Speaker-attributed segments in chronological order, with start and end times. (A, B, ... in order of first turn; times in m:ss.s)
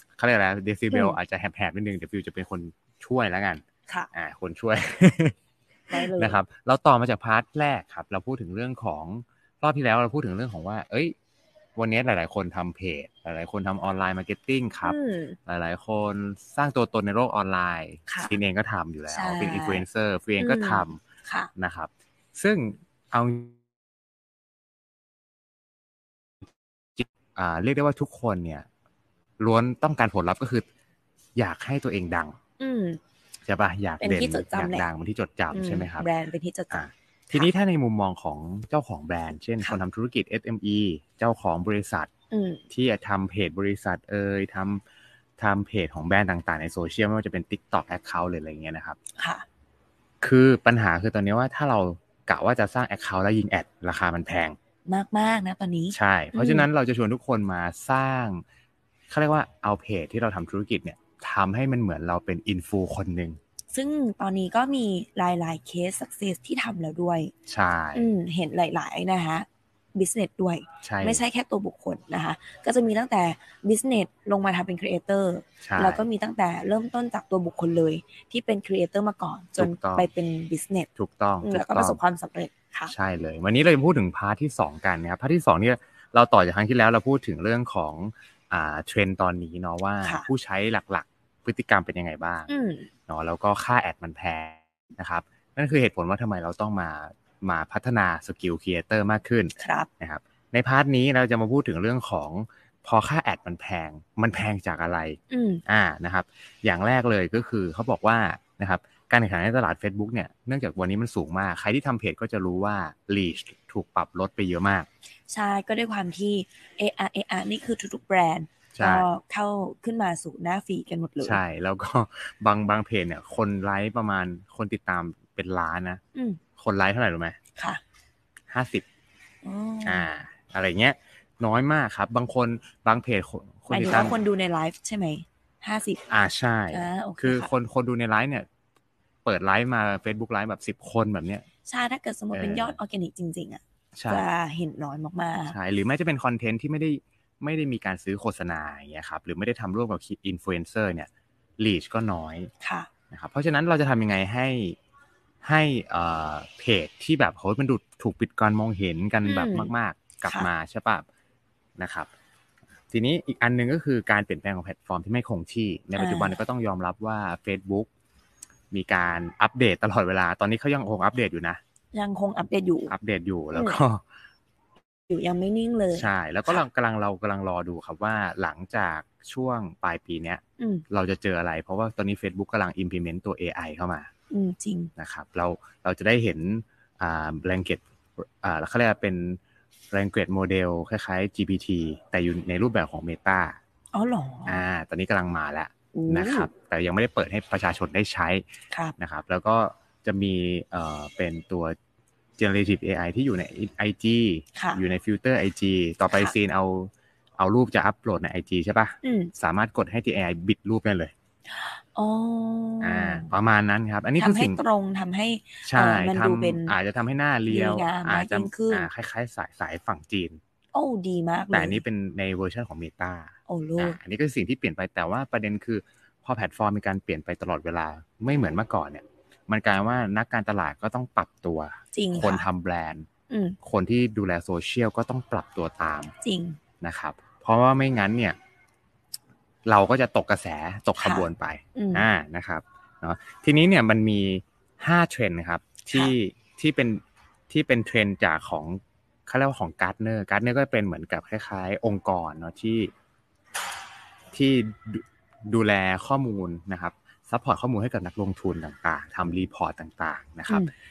0:00.2-0:05.3 A
0:00.9-0:01.2 B
0:05.9-0:11.1 A
0:05.9-0:06.4 B
0:11.8-0:21.0 A
0:14.8-0:15.4 B
0:18.1-0:18.3 B
0:19.1-0:19.8 B
0:20.4-0:21.5 B
0:21.6-0:23.6 A
0:27.0-0:28.6 A
0:29.4-0:30.6 A
0:31.4-0:32.4 A
0:32.6-0:33.0 B
0:33.4-0:36.1 A
0:34.0-0:34.9 B
0:35.5-0:37.5 B
0:36.7-0:42.1 A
0:42.3-0:42.6 B
0:42.7-0:44.8 A
0:45.4-0:49.0 A
0:49.2-0:49.4 B
0:50.2-0:54.6 A
0:54.8-0:56.7 B
0:55.9-0:58.4 A
0:59.1-1:03.4 A
1:03.7-1:07.3 B
1:07.5-1:08.1 A
1:07.9-1:20.9 B
1:10.8-1:11.2 A
1:15.6-1:16.0 A
1:19.6-1:20.1 A
1:21.0-1:22.0 A
1:21.4-1:22.9 B
1:22.9-1:32.5 A
1:30.0-1:30.3 B
1:32.5-1:32.9 B
1:33.1-1:54.9 A
1:39.6-1:39.9 B
1:45.3-1:45.6 B
1:55.3-2:01.4 B
1:58.7-1:59.1 A
2:01.2-2:06.0 A
2:06.1-2:06.4 B
2:06.6-2:07.4 A
2:07.6-2:07.8 B
2:08.5-2:08.8 A
2:09.4-2:10.1 B
2:09.8-2:14.2 A
2:13.7-2:16.0 B
2:16.1-2:18.4 A
2:16.7-2:17.5 B
2:19.2-2:21.4 A
2:21.6-2:25.6 B
2:22.3-2:22.8 A
2:24.0-2:24.3 A
2:25.5-2:32.5 A
2:32.6-2:32.9 B
2:33.1-2:34.8 A
2:35.4-2:41.0 A
2:39.2-2:39.7 B
2:41.8-2:42.1 A
2:42.9-2:47.9 A
2:46.0-2:46.4 B
2:48.7-2:51.6 A
2:51.9-2:52.9 B
2:52.9-2:54.0 A
2:53.5-2:53.8 B
2:55.1-2:56.6 B
2:55.9-3:04.1 A
3:00.6-3:00.8 B
3:04.3-3:04.9 B
3:05.0-3:07.8 A
3:08.4-3:09.4 A
3:09.9-3:13.6 A
3:13.9-3:14.6 B
3:14.4-3:18.4 A
3:15.9-3:16.5 B
3:19.0-3:21.8 A
3:22.4-3:31.1 A
3:24.5-3:24.8 B
3:29.0-3:29.3 B
3:31.5-3:33.3 B
3:32.8-3:34.6 A
3:34.2-3:36.8 B
3:35.6-3:40.4 A
3:37.5-3:38.9 B
3:40.7-3:41.8 B
3:41.5-3:53.0 A
3:43.5-3:44.0 B
3:51.9-3:52.4 B
3:53.3-3:53.6 B
3:53.6-3:56.1 A
3:56.2-3:56.6 B
3:56.8-3:58.4 A
3:59.7-4:12.9 A
4:01.0-4:02.0 B
4:05.9-4:06.1 B
4:14.3-4:20.7 A